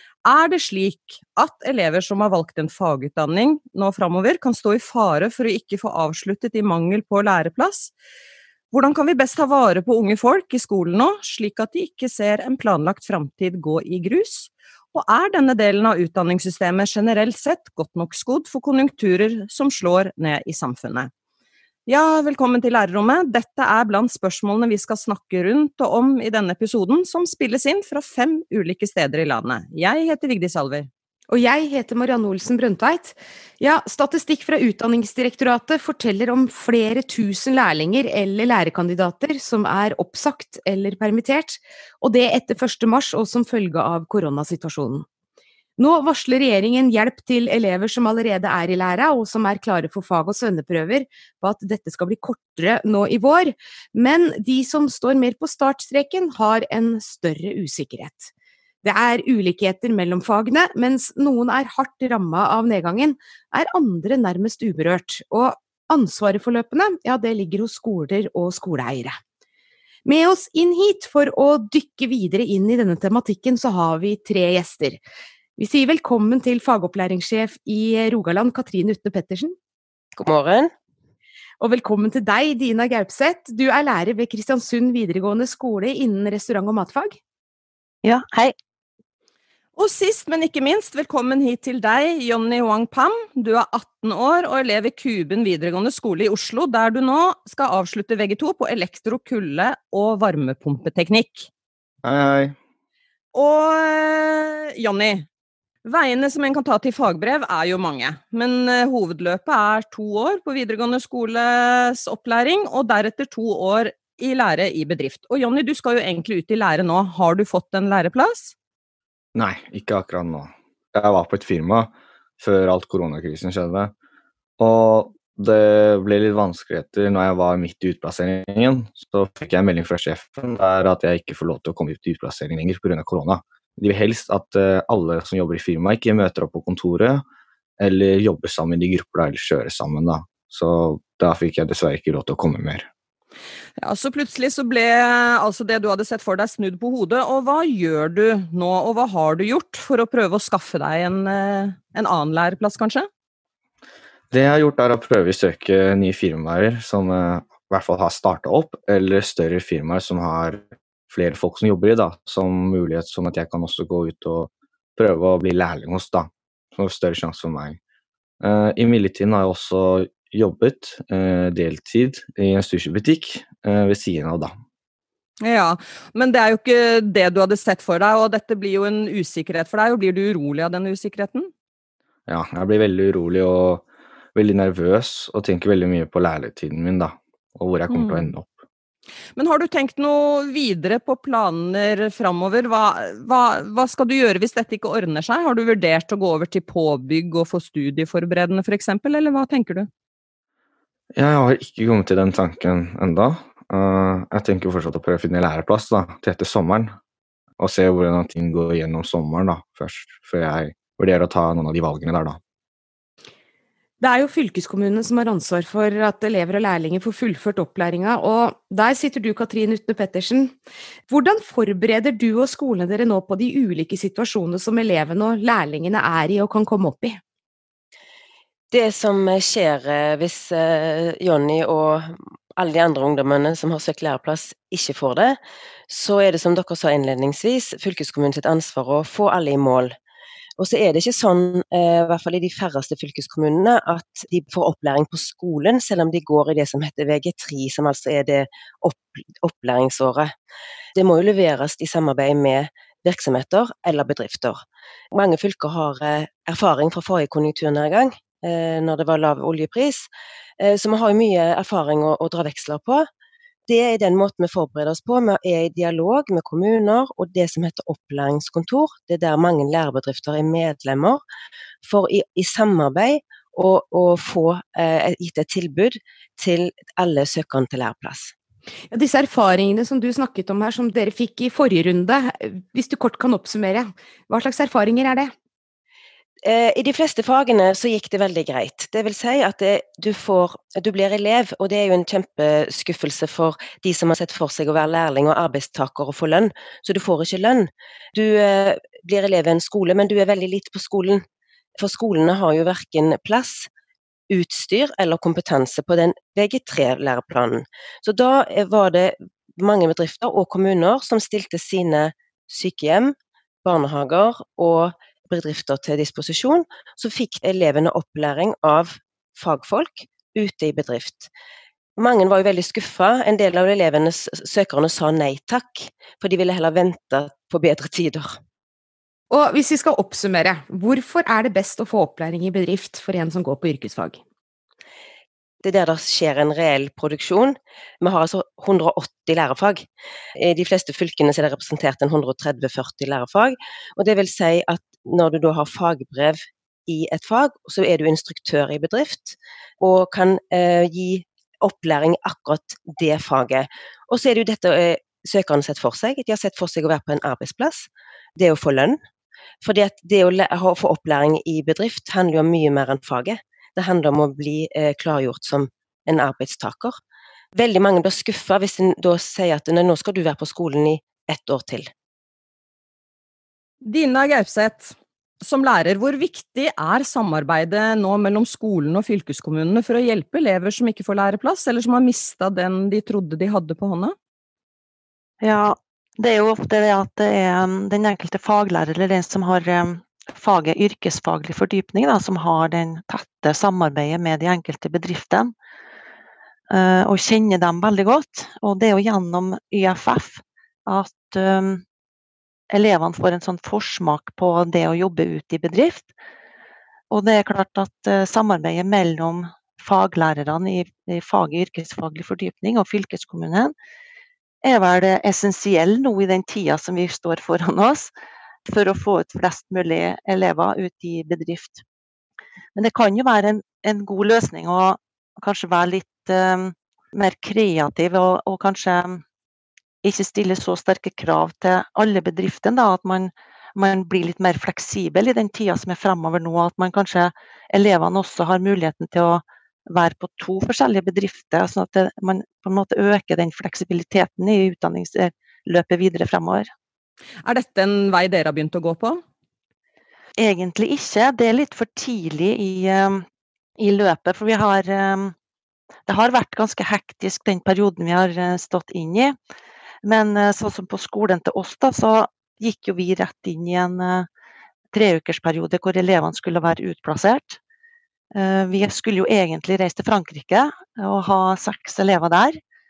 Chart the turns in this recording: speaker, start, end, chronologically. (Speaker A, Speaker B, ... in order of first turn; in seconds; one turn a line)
Speaker A: 0.2-7.9
Speaker A: 8.7-21.1
Speaker A: 21.9-30.9
Speaker B: 31.3-45.0
Speaker B: 45.8-58.3
Speaker B: 58.8-69.2
Speaker B: 70.0-75.0
Speaker B: 75.6-79.5
Speaker C: 80.2-80.7
Speaker B: 81.6-87.2
Speaker D: 88.0-88.5
Speaker A: 89.8-101.5
Speaker E: 102.0-102.5
Speaker A: 103.3-105.2
Speaker A: 105.8-118.5
Speaker E: 119.3-123.9
Speaker E: 124.6-137.2
Speaker E: 137.8-142.9
Speaker A: 143.8-153.1
Speaker E: 154.3-167.8
Speaker E: 168.4-174.5
Speaker A: 175.4-181.5
Speaker E: 182.3-183.8
Speaker E: 184.3-188.5
Speaker A: 187.9-188.3
Speaker A: 189.3-199.9
Speaker E: 201.1-206.9
Speaker E: 207.6-212.4
Speaker B: 214.0-220.6
Speaker B: 221.1-227.2
Speaker C: 228.7-239.9
Speaker C: 240.6-250.3
Speaker C: 250.9-260.1
Speaker C: 260.6-263.1
Speaker C: 263.7-271.2
Speaker C: 271.8-278.3
Speaker B: 278.9-285.3
Speaker C: 286.4-301.2
Speaker C: 301.8-303.7
Speaker C: 304.3-321.3
Speaker C: 322.0-328.4
Speaker B: 329.3-334.2
Speaker C: 335.6-359.0
Speaker C: 359.6-367.0
Speaker C: 367.5-371.9
Speaker A: 373.8-384.1
Speaker D: 385.4-395.5
Speaker D: 396.7-401.8
Speaker D: 402.7-406.1
Speaker D: 407.1-413.7
Speaker D: 414.6-418.1
Speaker D: 418.7-421.8
Speaker D: 422.7-429.2
Speaker D: 430.0-446.7
Speaker A: 447.4-449.2
Speaker D: 450.4-453.2
Speaker D: 453.8-455.3
Speaker D: 456.1-459.4
Speaker D: 460.0-464.3
Speaker D: 464.9-467.6
Speaker D: 468.3-472.6